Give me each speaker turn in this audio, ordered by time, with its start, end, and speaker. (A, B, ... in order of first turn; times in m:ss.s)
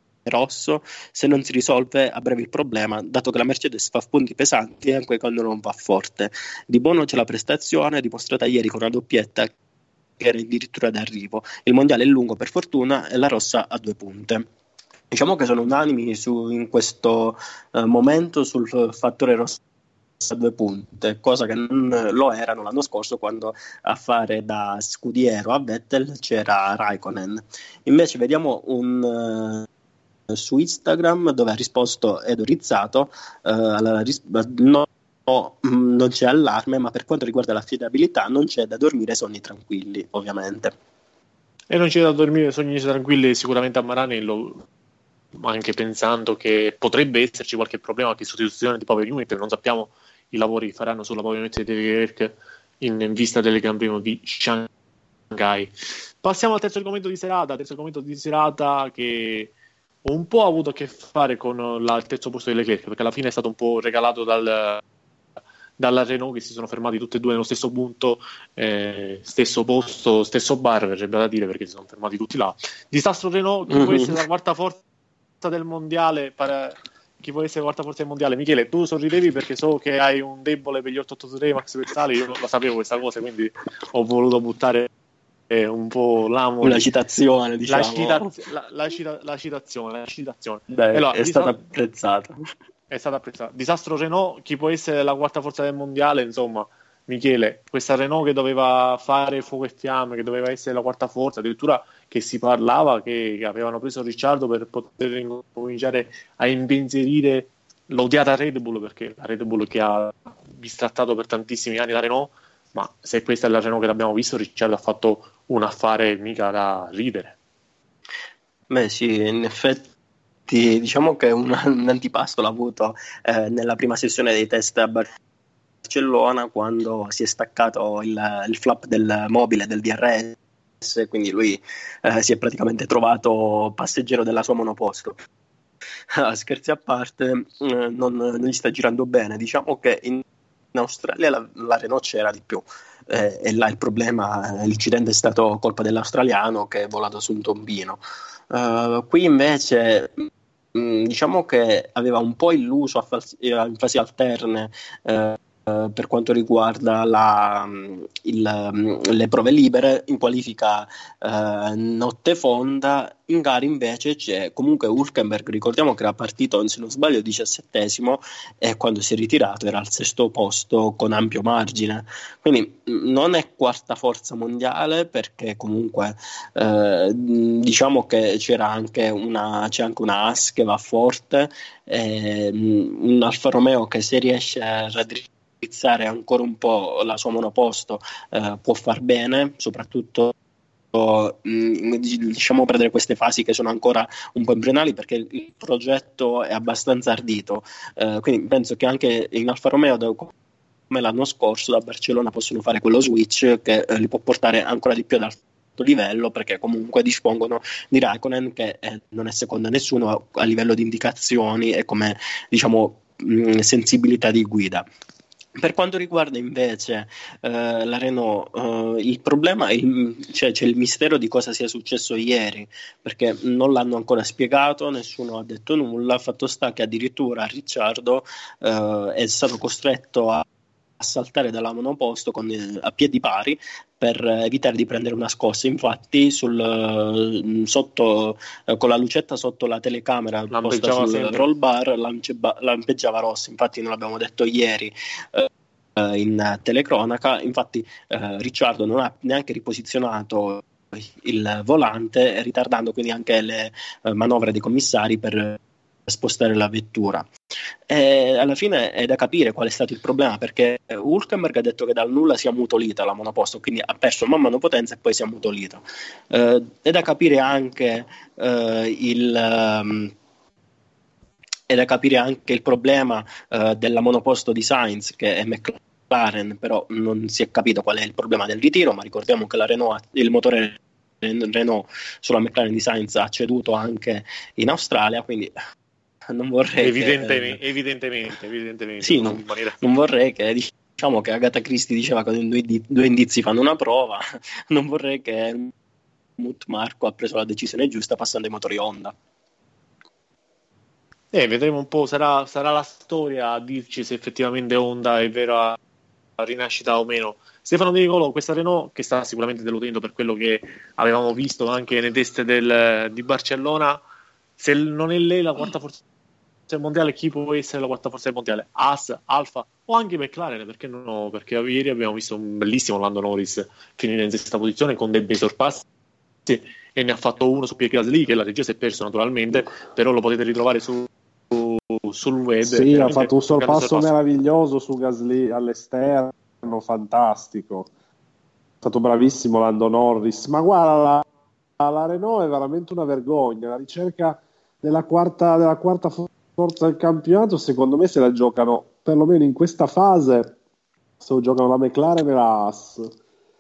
0:00.2-0:09.5 A
0:10.2-0:14.5 A
0:15.1-0:19.6 A
0:20.2-0:29.7 A
0:30.3-0:40.8 A
0:41.7-0:44.7 B
0:45.4-0:54.7 B
0:55.3-0:59.5 B
1:00.0-1:04.8 B
1:05.8-1:14.8 B
1:13.7-1:14.2 A
1:15.4-1:24.9 B
1:25.5-1:26.9 B
1:26.6-1:28.3 A
1:27.7-1:31.6 B
1:30.7-1:32.4 A
1:32.9-1:57.4 B
1:58.7-1:59.9 A
2:00.5-2:05.1 A
2:05.8-2:15.2 A
2:16.1-3:10.3 A
3:10.9-3:20.3 A
3:20.9-3:34.8 A
3:35.6-3:50.4 A
3:51.0-4:17.3 A
4:00.5-4:01.5 B
4:17.9-4:30.1 A
4:31.7-4:45.5 A
4:46.3-4:47.6 A
4:46.8-4:49.8 B
4:49.0-4:55.7 A
4:56.4-4:59.2 A
5:01.3-5:05.8 B
5:06.4-5:14.0 B
5:14.6-5:16.0 B
5:16.7-5:25.8 B
5:26.5-5:34.1 B
5:32.6-5:37.9 C
5:38.8-5:41.2 C
5:41.8-5:50.6 C
5:51.2-5:53.1 C